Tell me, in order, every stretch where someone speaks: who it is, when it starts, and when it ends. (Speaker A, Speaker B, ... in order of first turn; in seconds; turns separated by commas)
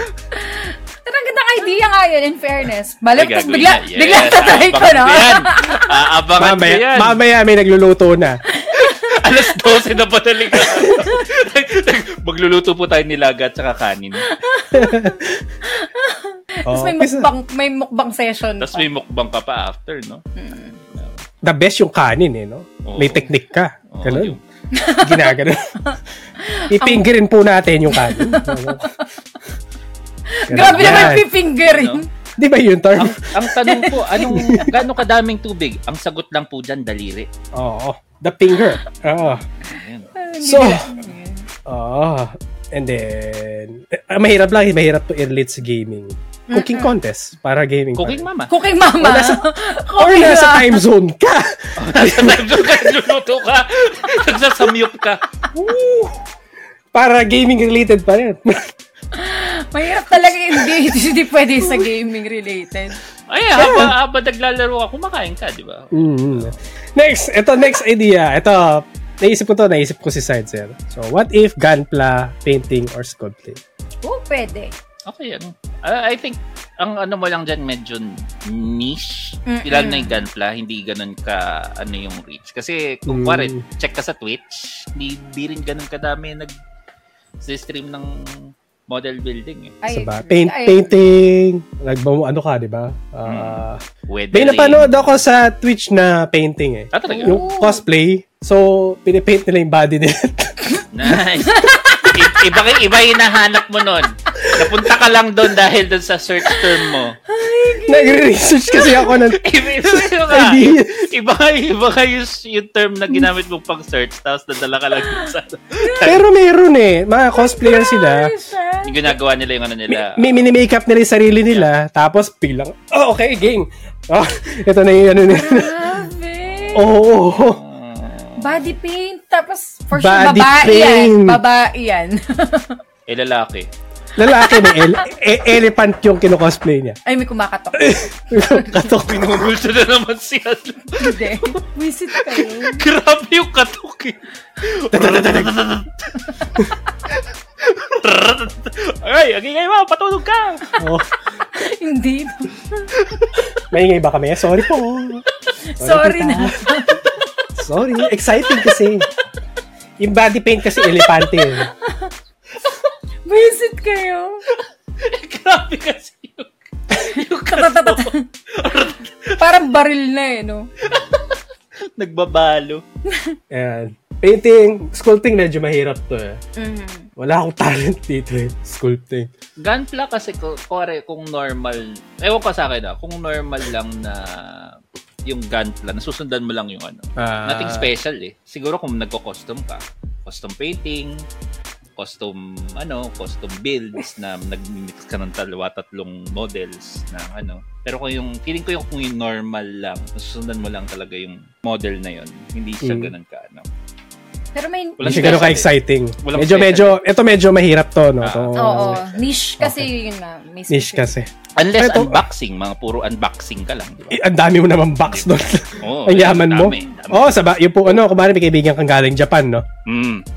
Speaker A: 0.3-6.0, Speaker B: 3.2-7.2, Speaker C: 6.4-8.4, Speaker A: 8.5-9.8, Speaker B: 8.7-14.3, Speaker A: 10.8-11.2, Speaker A: 14.2-18.9, Speaker C: 14.7-15.4, Speaker C: 16.7-17.3, Speaker B: 18.6-20.2, Speaker A: 20.4-20.8, Speaker B: 20.9-21.2, Speaker C: 21.4-24.4, Speaker B: 22.8-23.3, Speaker B: 23.9-24.4, Speaker A: 24.7-27.1, Speaker C: 25.0-25.8, Speaker C: 26.7-28.9, Speaker A: 27.9-29.0, Speaker A: 30.3-32.1, Speaker C: 30.5-31.3, Speaker B: 30.6-32.0, Speaker C: 32.4-33.6, Speaker B: 33.0-37.3, Speaker A: 33.6-34.7, Speaker C: 34.2-34.7, Speaker C: 37.5-39.4, Speaker B: 39.2-40.1, Speaker A: 40.2-41.5, Speaker C: 40.4-40.9, Speaker C: 41.6-48.3, Speaker A: 46.5-46.9, Speaker B: 48.0-48.5, Speaker A: 48.5-50.8, Speaker C: 49.0-49.4, Speaker C: 50.0-52.9, Speaker B: 51.8-55.2, Speaker C: 55.5-56.2, Speaker C: 56.9-58.7, Speaker A: 59.1-63.0, Speaker B: 63.3-66.5, Speaker C: 63.5-63.9, Speaker C: 65.9-73.6, Speaker A: 74.0-74.7, Speaker B: 75.1-86.5, Speaker A: 79.5-80.2, Speaker C: 83.1-83.7, Speaker B: 87.4-89.8, Speaker A: 89.8-90.9, Speaker C: 89.9-101.2, Speaker B: 93.3-95.2, Speaker B: 96.9-97.4, Speaker A: 97.1-97.8, Speaker B: 100.9-107.2, Speaker A: 101.5-102.3, Speaker A: 107.3-109.2, Speaker C: 107.8-111.1, Speaker B: 109.1-116.2, Speaker A: 115.8-116.1, Speaker C: 116.0-118.3, Speaker A: 117.3-119.2, Speaker B: 118.8-120.5, Speaker C: 119.9-125.8, Speaker A: 125.3-126.9, Speaker B: 126.5-128.7, Speaker C: 126.7-127.6, Speaker A: 128.4-132.8, Speaker C: 129.9-131.4, Speaker B: 133.1-133.7, Speaker C: 134.2-137.0, Speaker A: 134.2-135.1, Speaker A: 137.1-138.9, Speaker C: 137.8-139.5, Speaker B: 139.0-141.5, Speaker A: 141.0-142.9, Speaker B: 142.1-146.3, Speaker C: 144.9-145.6, Speaker B: 147.1-150.8, Speaker C: 150.8-151.1, Speaker A: 151.6-152.9, Speaker B: 152.9-153.5, Speaker C: 153.7-155.3, Speaker A: 155.7-157.2, Speaker C: 155.8-156.8, Speaker C: 157.6-159.1, Speaker C: 160.0-161.7, Speaker A: 160.9-162.1, Speaker A: 163.3-164.4, Speaker B: 164.5-169.6, Speaker A: 167.0-168.2, Speaker A: 169.4-170.7, Speaker B: 170.8-171.4, Speaker B: 172.0-172.8, Speaker A: 173.1-173.4, Speaker C: 173.5-176.4, Speaker A: 176.6-177.1, Speaker C: 177.2-179.3, Speaker B: 179.6-191.2, Speaker C: 187.2-187.9, Speaker B: 192.0-203.7, Speaker C: 202.8-203.1, Speaker A: 204.6-205.6, Speaker B: 205.0-205.7, Speaker C: 205.0-209.0, Speaker B: 206.2-207.0, Speaker B: 208.2-209.2, Speaker A: 208.6-211.1, Speaker C: 209.6-209.9, Speaker C: 210.7-212.2, Speaker B: 211.6-214.2, Speaker C: 214.1-219.7, Speaker B: 215.1-217.4, Speaker B: 219.9-220.2